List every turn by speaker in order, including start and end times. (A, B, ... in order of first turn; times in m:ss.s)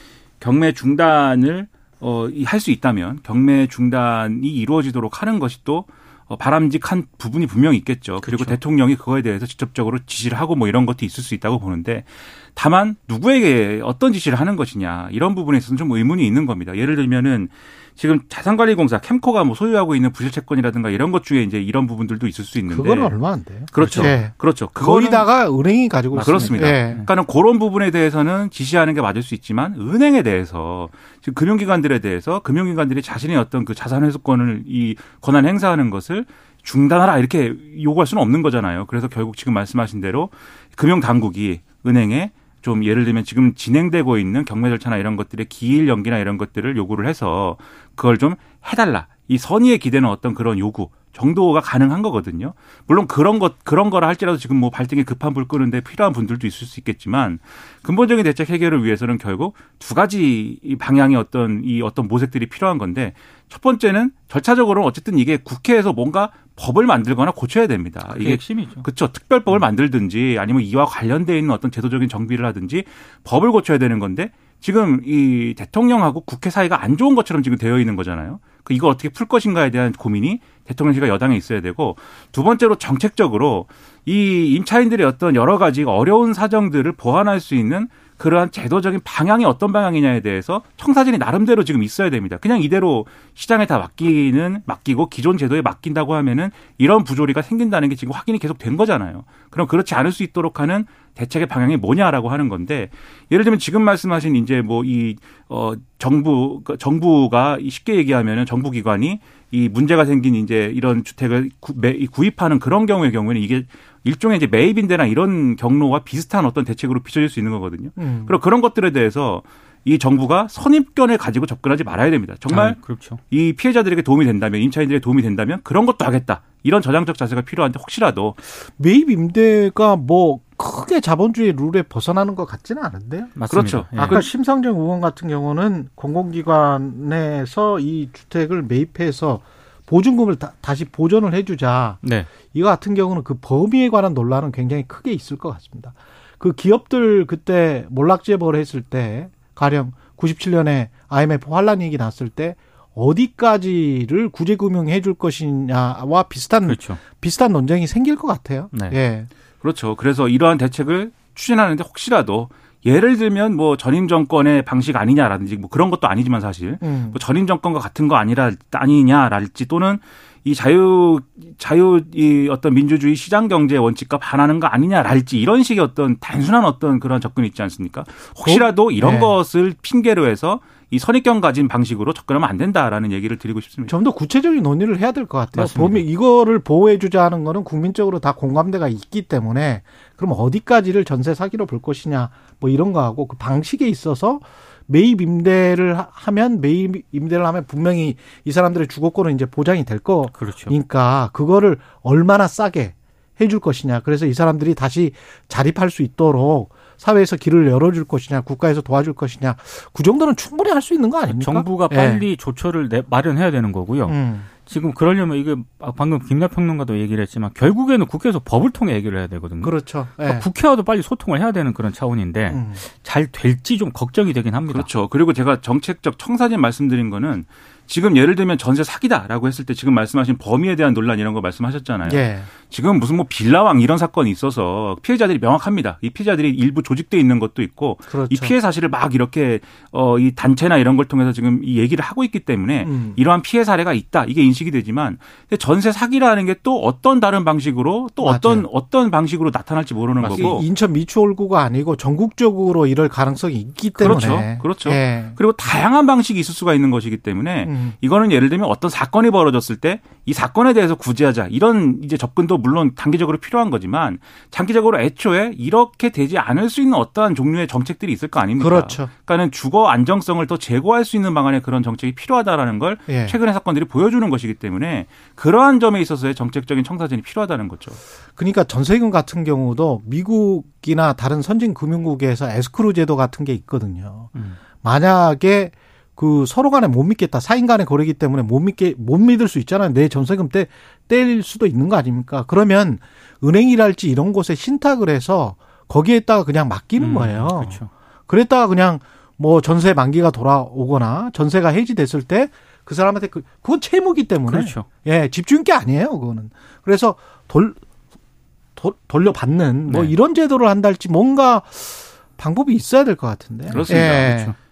0:00.4-0:25.3 A
0:08.2-0:08.6 B
0:22.7-0:27.0 C
0:23.8-0:24.2 B
0:26.1-0:27.1 B
0:26.2-2:02.8 A
1:08.0-1:08.9 B
1:58.0-1:58.4 C
2:02.5-2:03.2 B
2:03.3-2:08.4 A
2:08.5-2:13.4 C
2:13.4-2:14.2 B
2:13.5-2:14.3 A
2:14.0-2:22.0 C
2:22.0-2:22.3 B
2:22.5-2:39.3 C
2:36.7-2:37.0 B
2:38.7-2:39.0 B
2:39.6-3:04.0 A
2:46.8-2:47.2 C
2:58.4-2:59.4 C
3:03.9-3:32.3 C
3:05.6-3:06.0 B
3:20.3-3:20.8 B
3:31.3-3:44.9 B
3:34.1-3:34.5 C
3:39.6-3:40.5 C
3:42.5-3:42.8 C
3:44.7-4:10.6 A
3:52.0-3:52.5 C
3:58.1-3:58.5 C
4:02.8-4:03.2 C
4:08.2-4:08.7 C
4:10.2-4:10.6 B
4:10.3-4:15.4 C
4:14.0-4:38.0 A
4:17.6-4:18.0 C
4:28.6-4:29.1 C
4:33.1-4:33.4 C
4:38.4-5:07.8 C
4:57.0-4:57.9 B
5:04.5-5:04.9 B
5:08.8-5:14.5 C
5:09.9-5:10.1 B
5:13.7-5:14.4 A
5:13.7-5:14.5 B